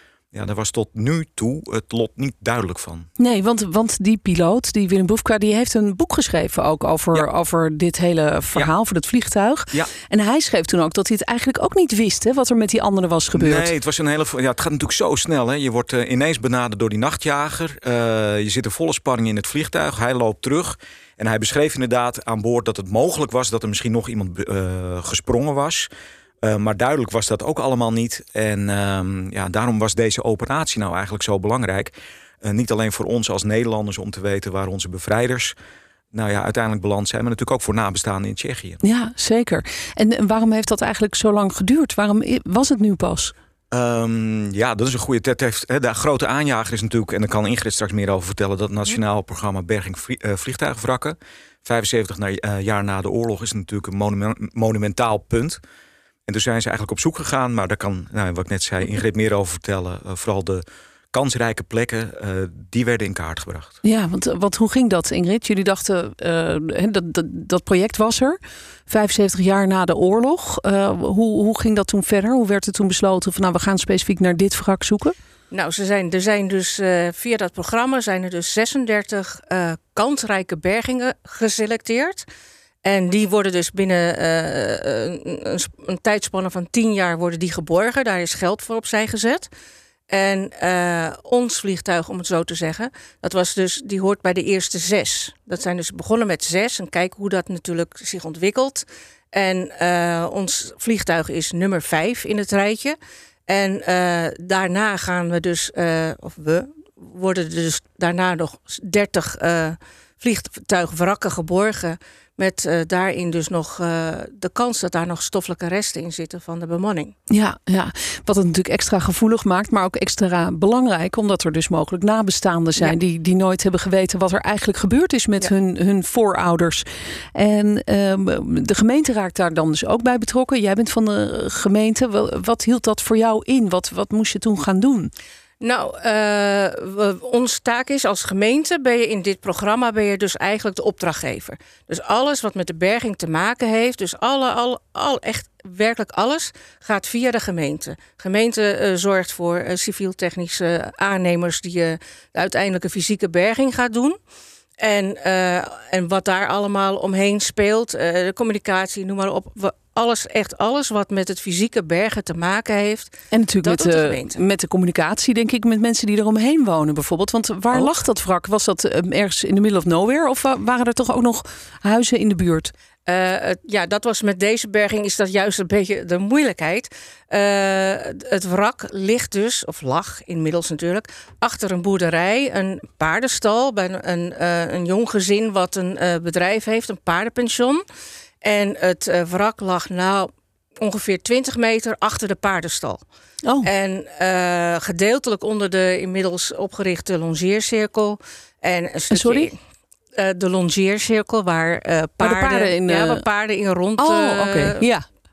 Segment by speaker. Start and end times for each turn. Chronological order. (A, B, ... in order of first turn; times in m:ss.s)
0:00.3-0:03.1 A
0:03.2-0:13.7 B
0:13.3-0:25.9 A
0:26.4-0:35.6 A
0:36.1-0:38.8 A
0:38.8-0:43.3 B
0:43.7-0:55.6 A
0:56.3-1:03.8 A
1:03.8-1:08.4 B
1:08.9-1:15.2 B
1:15.5-1:22.3 C
1:22.8-1:29.5 C
1:30.1-1:57.2 C
1:57.3-2:15.1 B
2:15.6-2:34.2 C
2:34.8-2:44.4 C
2:43.3-2:52.7 B
2:53.1-3:07.8 C
3:08.4-3:13.0 C
3:13.6-3:19.5 C
3:19.1-3:19.5 B
3:20.2-3:24.9 C
3:22.2-3:23.2 B
3:24.0-3:25.0 B